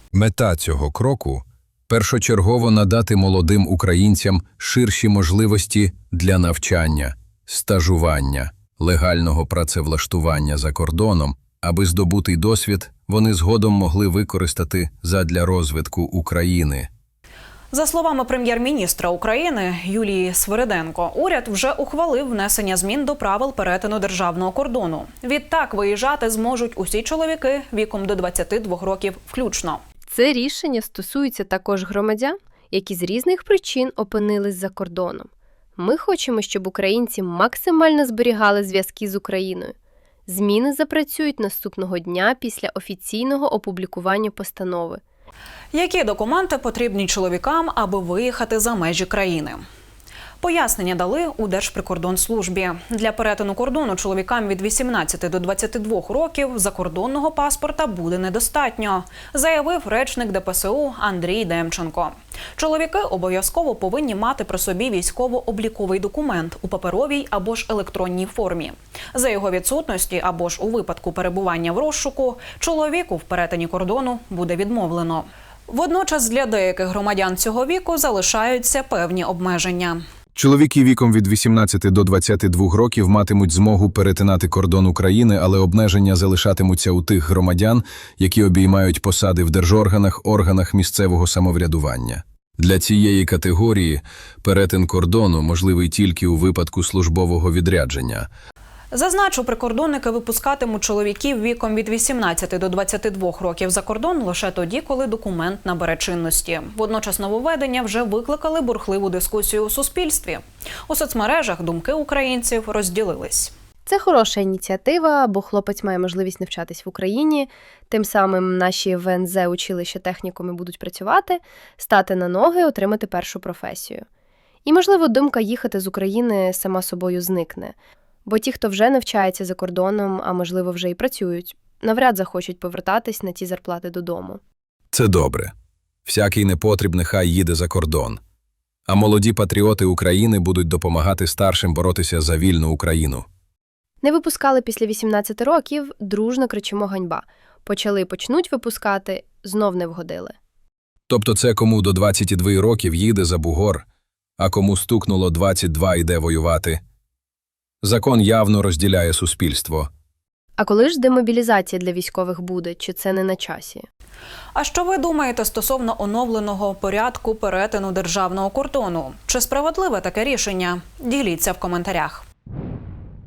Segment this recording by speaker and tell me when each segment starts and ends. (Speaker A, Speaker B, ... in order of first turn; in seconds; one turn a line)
Speaker A: 0.1-16.9
Speaker B: 17.7-29.8
Speaker C: 30.1-39.7
Speaker C: 40.3-45.0
Speaker B: 45.7-49.6
Speaker B: 50.4-80.0
Speaker A: 80.3-98.3
Speaker B: 98.9-113.5
Speaker C: 113.9-124.0
Speaker C: 124.7-134.4
Speaker A: 134.9-135.5
Speaker A: 136.1-138.2
Speaker A: 138.9-143.3
Speaker C: 144.0-150.3
Speaker A: 151.1-153.8
Speaker A: 154.4-156.8
Speaker A: 157.8-159.9
Speaker C: 160.6-163.9
Speaker B: 164.6-172.3